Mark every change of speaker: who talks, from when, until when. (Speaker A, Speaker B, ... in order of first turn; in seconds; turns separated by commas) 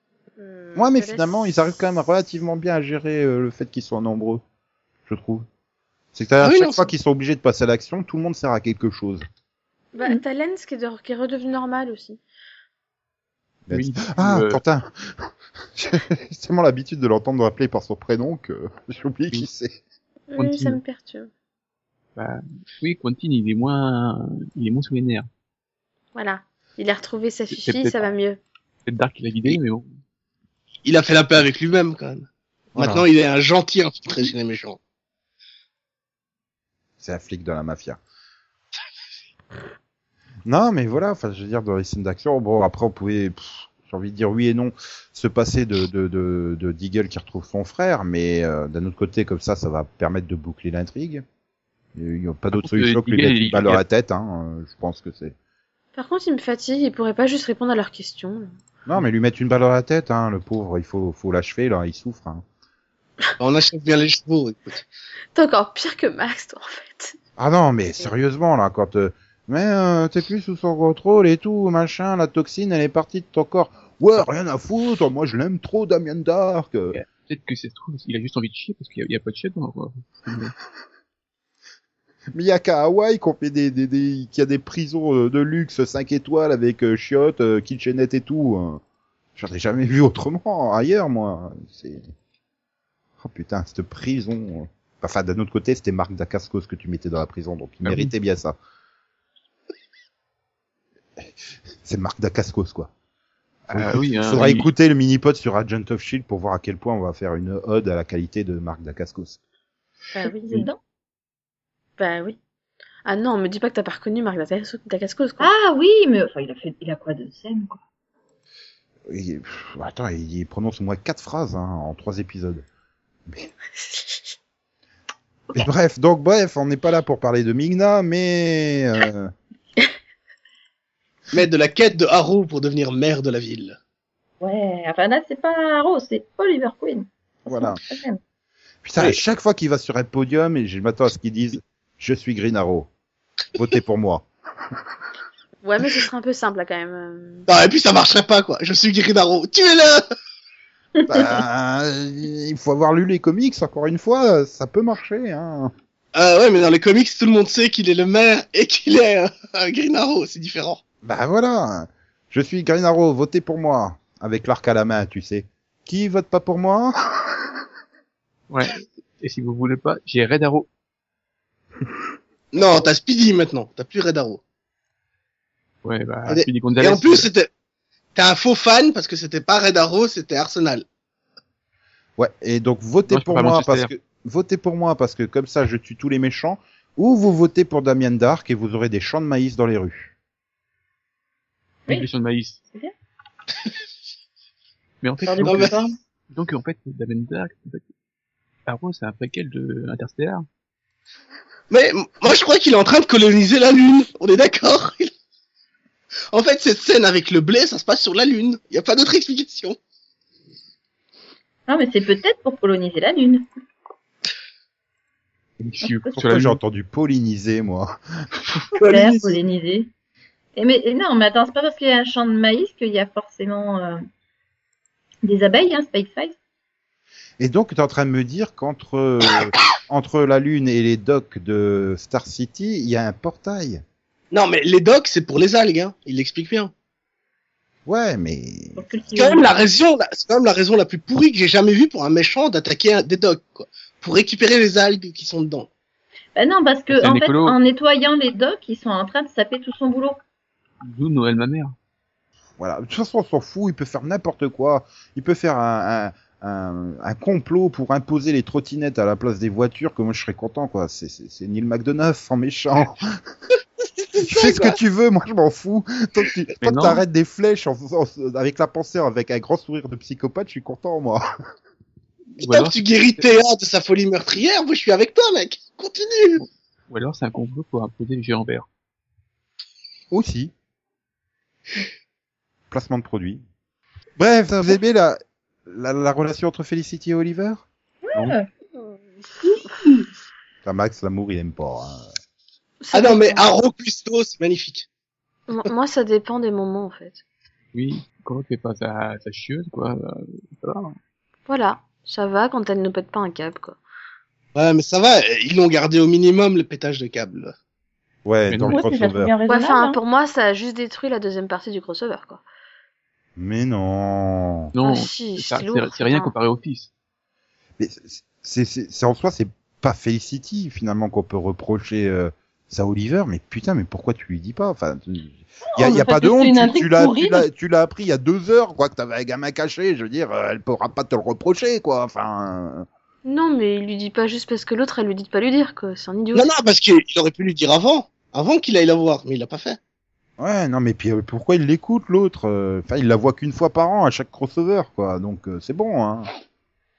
Speaker A: 0.4-1.3, Speaker B: 0.8-4.4, Speaker B: 5.1-5.5, Speaker B: 6.1-9.2, Speaker C: 6.4-6.9, Speaker A: 9.9-12.2, Speaker B: 13.7-19.8, Speaker D: 13.7-14.6, Speaker A: 20.3-21.3, Speaker D: 20.4-20.8, Speaker D: 22.1-25.3, Speaker A: 26.1-28.4, Speaker D: 27.5-28.1, Speaker D: 28.9-29.9, Speaker C: 30.8-34.8, Speaker B: 32.7-33.1, Speaker B: 37.0-38.0, Speaker B: 40.5-51.2, Speaker B: 51.9-55.3, Speaker D: 52.5-53.8, Speaker A: 55.9-58.5, Speaker B: 58.9-62.4, Speaker C: 63.4-64.8, Speaker A: 65.3-67.2, Speaker B: 67.4-77.0, Speaker D: 76.9-80.5, Speaker B: 82.3-88.8, Speaker B: 89.3-92.1, Speaker B: 93.2-98.5, Speaker D: 97.8-98.1, Speaker B: 101.8-102.9, Speaker B: 103.7-109.4, Speaker D: 103.7-104.7, Speaker E: 110.1-110.8, Speaker A: 110.2-110.7, Speaker A: 112.0-112.4, Speaker A: 113.0-115.5, Speaker E: 115.4-117.8, Speaker B: 119.1-122.7, Speaker A: 123.8-124.2, Speaker B: 125.5-129.3, Speaker C: 131.3-133.8, Speaker E: 134.4-138.2, Speaker B: 137.5-137.8, Speaker B: 138.8-142.9, Speaker B: 143.5-144.3, Speaker A: 145.6-147.5, Speaker C: 147.5-150.0, Speaker E: 151.0-151.3, Speaker B: 151.1-155.7, Speaker C: 156.1-160.8, Speaker B: 161.0-167.3, Speaker D: 168.5-170.7, Speaker C: 172.5-174.4, Speaker D: 175.8-177.3, Speaker C: 176.3-177.5, Speaker C: 178.1-180.8, Speaker B: 182.2-190.1, Speaker D: 183.1-183.9, Speaker D: 191.9-192.6, Speaker D: 195.0-195.8, Speaker E: 195.2-195.9, Speaker C: 195.4-195.7, Speaker D: 196.3-197.9, Speaker D: 198.7-200.4, Speaker C: 201.7-205.1, Speaker C: 206.3-209.8, Speaker E: 211.7-213.4, Speaker D: 215.6-216.6, Speaker E: 215.8-216.2, Speaker B: 216.2-218.0, Speaker C: 218.8-219.3, Speaker E: 218.8-219.9, Speaker E: 220.6-224.0, Speaker E: 225.2-226.3, Speaker B: 227.4-233.8, Speaker C: 234.3-236.7, Speaker B: 237.8-239.2, Speaker E: 238.8-239.5, Speaker C: 239.2-245.7, Speaker E: 246.3-250.2, Speaker D: 246.9-247.6, Speaker D: 250.8-251.7, Speaker B: 252.6-263.2, Speaker C: 264.0-264.8, Speaker B: 264.2-271.3, Speaker D: 266.6-267.0, Speaker D: 272.4-273.2, Speaker C: 272.4-276.4, Speaker D: 276.4-278.7, Speaker B: 280.1-280.5, Speaker B: 282.7-283.4, Speaker B: 284.2-288.3, Speaker E: 288.0-288.5, Speaker B: 290.6-292.1, Speaker A: 292.8-293.5, Speaker C: 292.9-294.9, Speaker A: 295.5-297.2, Speaker D: 297.7-300.9, Speaker A: 301.5-303.8, Speaker C: 304.5-307.5, Speaker B: 308.2-309.3, Speaker D: 308.5-308.8, Speaker E: 308.7-310.0, Speaker A: 309.5-312.4, Speaker B: 313.4-314.7, Speaker D: 314.7-316.9, Speaker A: 314.8-316.3, Speaker B: 317.8-332.9, Speaker E: 325.7-327.4, Speaker A: 333.2-336.5, Speaker C: 336.3-339.8, Speaker B: 340.4-346.3